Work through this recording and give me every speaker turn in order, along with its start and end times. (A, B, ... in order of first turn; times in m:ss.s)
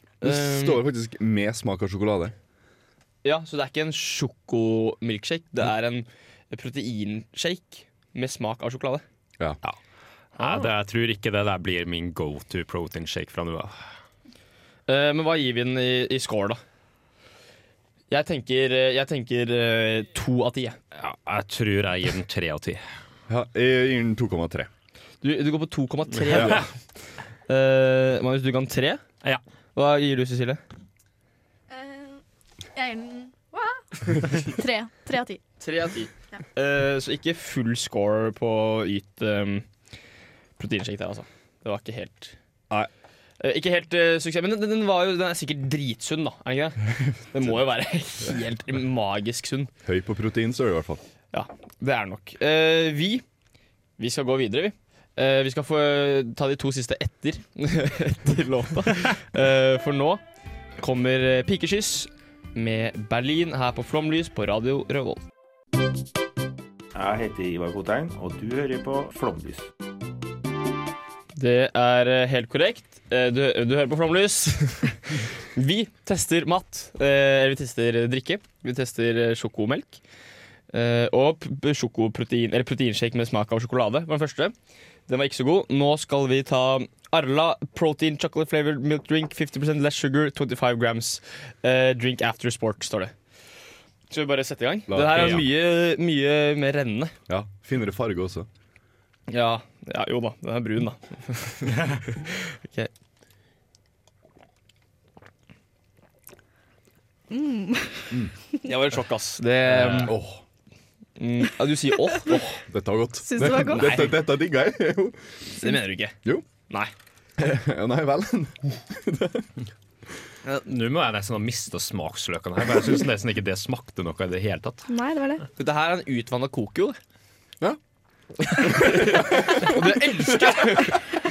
0:00.2-0:00.8 A
0:00.2-0:02.3 B
0:03.2-0:09.0 A
0:10.4-0:13.7 C
0:14.9-0:16.6 A
0:18.1-0:20.8 A
0:21.0-0:22.8 C
0:23.3-0:24.7 B
0:25.2-0:26.7 A
0:26.3-0:26.6 B
0:26.3-0:26.6 C
0:27.5-0:29.0 A
0:29.8-0:30.6 A
0:31.7-0:32.2 D
0:32.7-0:35.4 D
0:35.6-0:39.7 A
0:40.6-0:42.4 A
0:43.4-0:49.7 A
0:49.8-0:51.0 B
0:51.3-0:53.2 A
0:54.0-1:00.2 A
1:00.8-1:05.2 A
1:06.9-1:09.7 E
1:11.4-1:20.0 A
1:20.7-1:24.5 A
1:25.1-1:33.1 A
1:34.1-1:37.1 A
1:34.9-1:35.4 B
1:35.2-1:35.4 C
1:37.3-1:38.5 B
1:39.3-1:42.9 A
1:47.3-1:48.2 D
1:48.6-1:50.2 A
1:49.7-1:50.4 B
1:51.2-1:52.6 A
1:52.7-1:55.2 B
1:53.2-1:54.1 D
1:53.6-1:54.2 A
1:55.6-1:56.2 A
1:57.4-1:59.5 B
2:00.5-2:04.9 C
2:04.9-2:05.4 D
2:05.6-2:07.0 A
2:08.4-2:11.0 A
2:08.5-2:09.9 B